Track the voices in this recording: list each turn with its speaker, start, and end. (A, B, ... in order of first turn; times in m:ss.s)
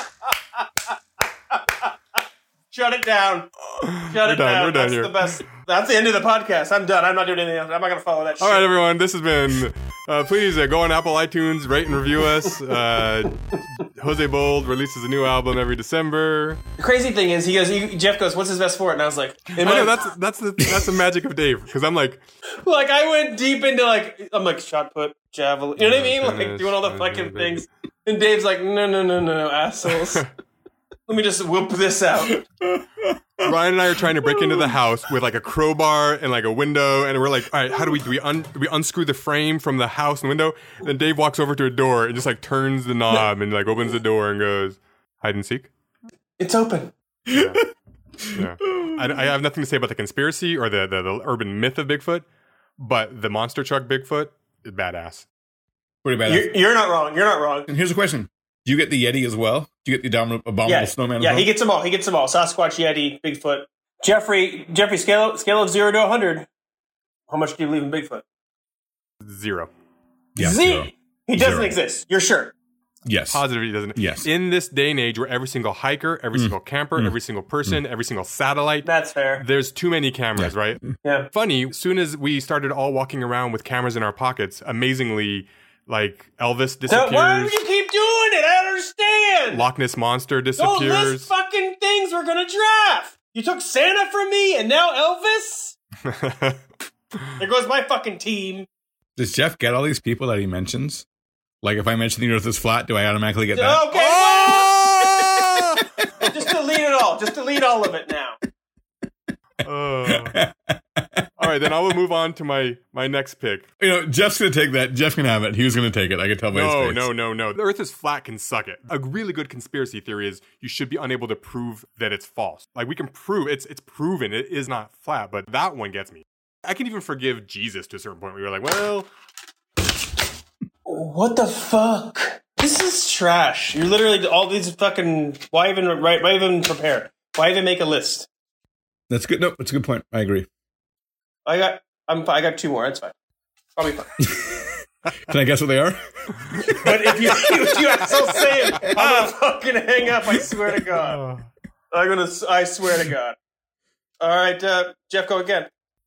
0:02.7-0:03.5 A
0:03.8-0:05.4 B
0:04.0-0:08.7 A
0:08.4-0:16.6 B
0:16.8-0:20.0 A
0:19.6-0:22.2 B
0:20.6-0:20.9 C
0:22.6-0:30.2 A
0:25.8-0:27.6 B
0:31.1-0:32.4 A
0:32.6-0:33.6 C
0:33.4-0:45.7 B
0:34.1-0:34.8 C
0:46.4-0:46.9 A
0:47.3-0:47.6 C
0:47.3-0:47.6 B
0:48.2-0:49.3 C
0:48.3-0:52.3 B
0:52.8-0:55.3 B
0:56.0-0:56.5 C
0:56.3-0:57.7 A
0:57.7-1:01.5 C
1:00.7-1:06.5 A
1:07.3-1:08.2 A
1:09.2-1:09.7 B
1:10.4-1:11.7 C
1:10.4-1:12.5 A
1:13.1-1:13.4 C
1:13.3-1:27.6 B
1:14.0-1:14.3 C
1:16.4-1:17.1 C
1:18.8-1:19.4 A
1:21.0-1:21.3 A
1:26.9-1:29.6 A
1:29.5-1:31.3 B
1:30.6-1:35.8 A
1:36.0-1:36.6 B
1:37.4-1:38.7 A
1:39.2-1:41.1 C
1:41.6-1:43.9 C
1:43.5-1:44.8 A
1:43.9-1:45.8 B
1:45.0-1:45.4 C
1:46.2-1:48.4 A
1:49.6-1:50.4 B
1:50.1-1:51.7 C
1:51.4-1:53.7 B
1:53.8-1:57.1 C
1:56.5-2:09.1 B
2:10.9-2:18.3 A
2:19.1-2:20.5 C
2:21.5-2:23.1 A
2:23.8-2:24.2 A
2:24.2-2:27.7 C
2:26.8-2:31.2 A
2:28.8-2:29.3 B
2:30.9-2:31.5 B
2:31.9-2:33.4 A
2:34.2-2:35.7 A